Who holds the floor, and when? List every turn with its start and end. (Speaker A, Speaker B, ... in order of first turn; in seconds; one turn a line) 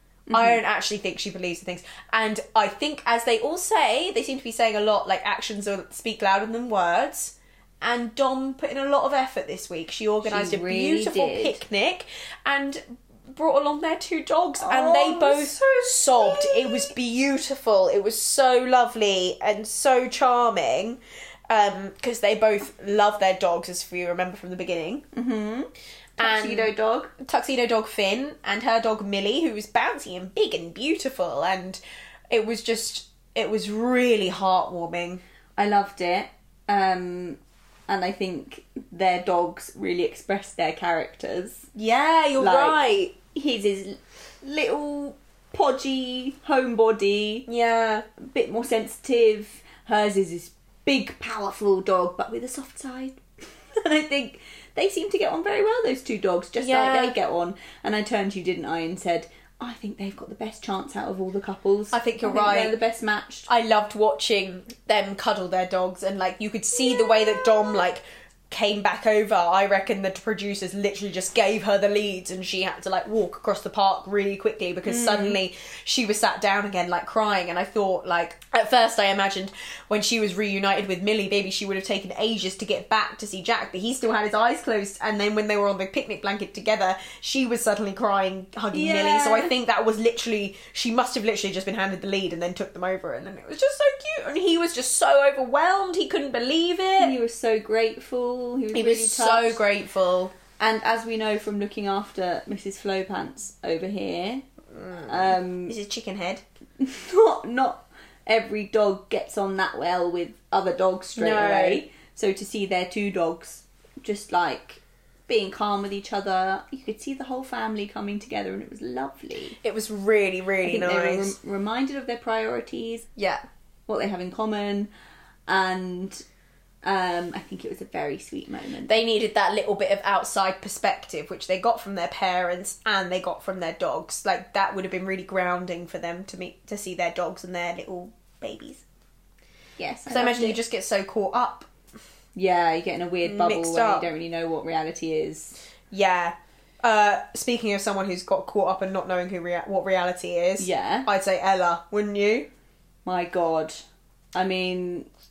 Speaker A: 0.3-0.6
Speaker B: 0.3-25.1
Speaker A: 10.2-11.6
Speaker A: 14.6-16.9
Speaker A: 25.1-27.1
Speaker B: 26.2-35.2
Speaker A: 35.6-41.7
Speaker B: 41.8-43.2
Speaker A: 42.4-47.5
Speaker B: 47.5-48.1
Speaker A: 48.2-53.2
Speaker A: 53.7-63.5
Speaker B: 56.6-57.2
Speaker B: 61.9-62.8
Speaker B: 63.5-97.2
Speaker A: 74.9-75.4
Speaker A: 88.7-89.5
Speaker A: 97.0-99.6
Speaker B: 98.7-100.4
Speaker A: 100.6-104.5
Speaker B: 104.8-106.4
Speaker A: 105.1-105.8
Speaker A: 106.8-119.6
Speaker B: 111.2-111.8
Speaker B: 119.6-121.3
Speaker A: 120.6-123.1
Speaker B: 123.2-123.4
Speaker A: 123.9-124.9
Speaker A: 125.5-126.2
Speaker A: 126.8-129.0
Speaker B: 128.9-138.8
Speaker A: 139.8-140.6
Speaker B: 140.1-141.7
Speaker A: 142.4-145.6
Speaker B: 143.2-144.1
Speaker B: 145.9-152.5
Speaker A: 150.6-151.1
Speaker A: 153.1-153.8
Speaker A: 154.3-155.1